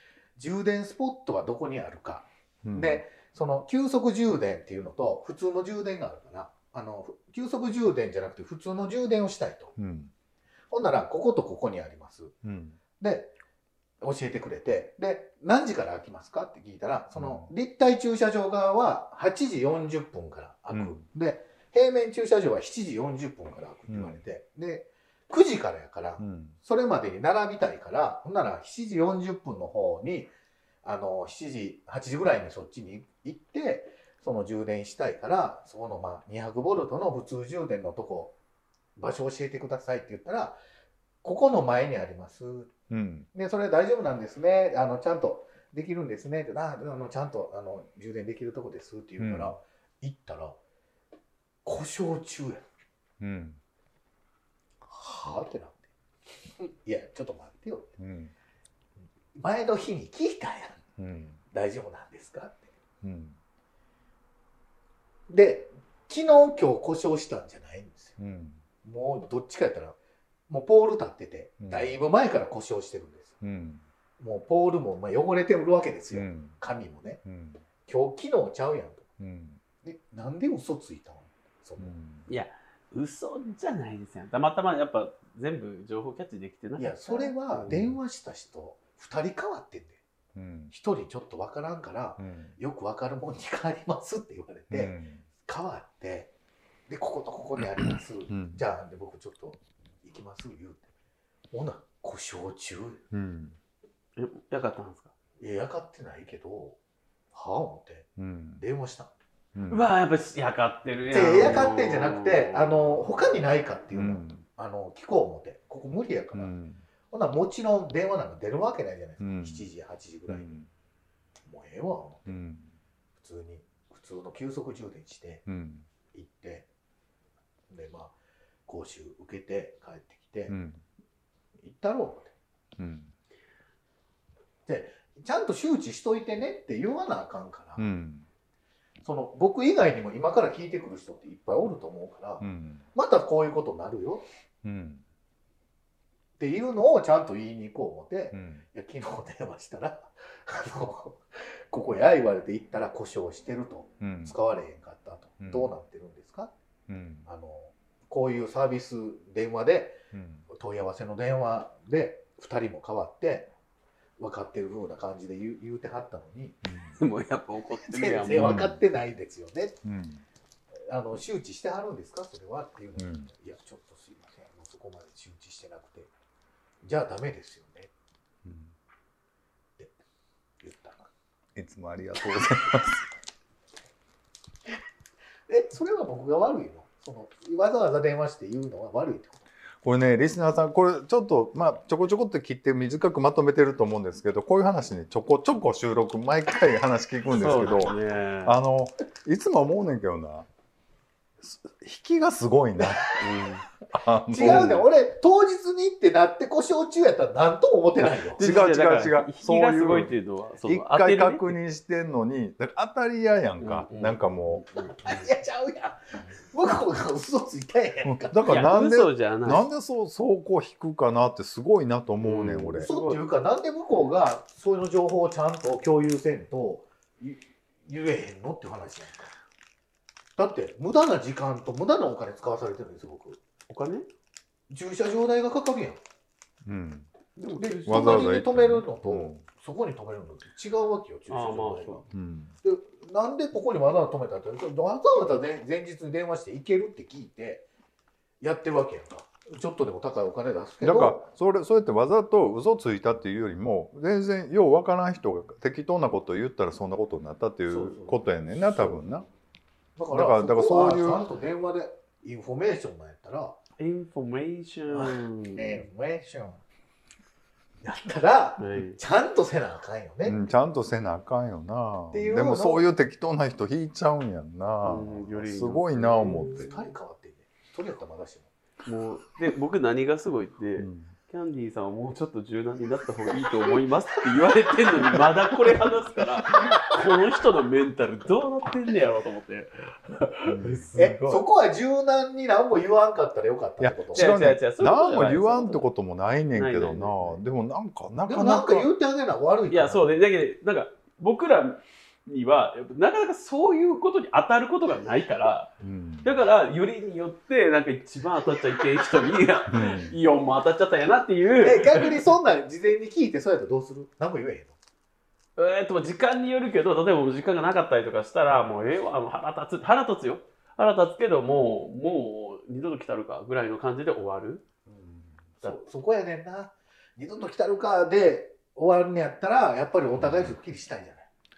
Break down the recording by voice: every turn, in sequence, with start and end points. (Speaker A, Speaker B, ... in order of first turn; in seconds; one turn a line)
Speaker A: 0.4-9.8
Speaker B: 2.6-3.0
Speaker B: 9.8-10.1
Speaker A: 10.7-12.4
Speaker B: 12.4-12.8
Speaker A: 13.0-13.3
Speaker A: 14.0-30.3
Speaker B: 17.1-17.5
Speaker B: 20.7-21.0
Speaker B: 23.9-24.2
Speaker B: 26.2-26.6
Speaker A: 30.8-38.4
Speaker A: 39.0-40.6
Speaker A: 41.2-42.7
Speaker B: 42.9-43.3
Speaker A: 43.3-50.6
Speaker B: 49.2-49.5
Speaker A: 51.6-52.6
Speaker B: 53.2-53.6
Speaker A: 54.9-55.9
Speaker A: 56.5-57.9
Speaker B: 58.0-58.3
Speaker A: 59.4-60.8
Speaker B: 61.0-61.4
Speaker A: 61.5-62.7
Speaker B: 63.0-63.4
Speaker A: 65.3-68.2
Speaker B: 68.2-68.6
Speaker A: 68.8-70.0
Speaker A: 70.5-73.4
Speaker B: 71.6-72.0
Speaker B: 73.4-73.8
Speaker A: 74.2-77.2
Speaker B: 76.1-76.6
Speaker B: 77.2-77.6
Speaker A: 77.9-79.1
Speaker B: 79.2-79.6
Speaker A: 79.8-81.9
Speaker B: 81.8-82.3
Speaker C: 82.3-87.7
Speaker A: 86.8-90.0
Speaker B: 87.7-88.0
Speaker B: 90.3-90.7
Speaker A: 90.7-96.3
Speaker B: 92.2-92.5
Speaker B: 94.7-95.2
Speaker A: 96.9-100.9
Speaker B: 98.3-98.6
Speaker A: 101.5-103.0
Speaker B: 103.1-103.6
Speaker C: 104.2-105.1
Speaker A: 105.4-106.8
Speaker A: 107.3-109.1
Speaker B: 108.2-108.6
Speaker B: 109.5-109.8
Speaker C: 109.7-112.7
Speaker A: 111.1-116.5
Speaker B: 113.9-114.4
Speaker B: 116.3-116.8
Speaker A: 117.1-120.5
Speaker B: 119.2-119.7
Speaker B: 120.3-120.7
Speaker A: 121.5-122.4
Speaker B: 122.3-122.7
Speaker A: 123.2-125.5
Speaker B: 125.5-125.9
Speaker A: 126.1-126.7
Speaker A: 127.7-128.2
Speaker A: 128.7-130.6
Speaker B: 130.5-130.8
Speaker A: 131.6-132.3
Speaker B: 132.8-133.1
Speaker A: 134.7-137.9
Speaker B: 137.8-138.3
Speaker A: 139.0-144.2
Speaker B: 142.4-142.8
Speaker B: 144.6-145.0
Speaker A: 146.4-156.5
Speaker B: 148.3-148.6
Speaker B: 154.0-154.3
Speaker B: 155.4-155.7
Speaker B: 156.9-157.3
Speaker A: 157.3-163.5
Speaker B: 160.1-160.4
Speaker A: 164.2-166.6
Speaker B: 166.7-166.9
Speaker C: 167.0-168.7
Speaker A: 167.8-169.8
Speaker B: 168.3-168.8
Speaker B: 169.8-170.2
Speaker A: 170.9-176.1
Speaker B: 173.0-173.3
Speaker A: 176.8-177.9
Speaker B: 178.4-178.7
Speaker A: 180.6-181.1
Speaker B: 181.6-183.1
Speaker A: 185.5-189.5
Speaker B: 189.8-200.5
Speaker C: 197.3-198.6
Speaker B: 201.4-203.2
Speaker A: 202.8-203.3
Speaker C: 203.2-203.6
Speaker B: 203.9-204.9
Speaker A: 204.3-208.4
Speaker C: 204.4-204.8
Speaker C: 208.2-211.6
Speaker B: 208.4-210.1
Speaker B: 210.7-214.7
Speaker C: 213.6-215.3
Speaker A: 215.0-218.5
Speaker B: 218.0-222.9
Speaker C: 218.4-219.7
Speaker C: 222.2-223.2
Speaker A: 222.8-229.3
Speaker A: 230.4-233.4
Speaker C: 233.7-234.1
Speaker A: 234.7-236.0
Speaker B: 236.7-237.1
Speaker C: 237.4-238.4
Speaker A: 237.6-242.1
Speaker B: 237.9-239.4
Speaker C: 241.3-242.0
Speaker B: 242.1-242.5
Speaker A: 242.6-247.7
Speaker A: 248.4-251.2
Speaker B: 250.8-259.3
Speaker A: 257.8-258.1
Speaker A: 258.8-259.1
Speaker A: 260.0-263.6
Speaker B: 260.1-261.2
Speaker C: 263.8-265.9
Speaker A: 264.9-266.6
Speaker A: 267.8-270.4
Speaker C: 268.6-269.0
Speaker B: 270.2-276.9
Speaker A: 272.1-272.9
Speaker C: 274.8-276.7
Speaker A: 276.4-278.5
Speaker C: 278.9-291.4
Speaker B: 280.8-281.1
Speaker A: 286.5-286.9
Speaker B: 290.4-291.1
Speaker A: 291.0-294.3
Speaker B: 293.8-298.9
Speaker C: 294.1-295.9
Speaker C: 296.5-297.4
Speaker A: 298.3-300.1
Speaker C: 299.7-305.7
Speaker B: 305.8-306.3
Speaker C: 306.2-312.2
Speaker B: 309.7-310.2
Speaker A: 311.6-314.8
Speaker C: 315.6-324.6
Speaker A: 324.9-331.3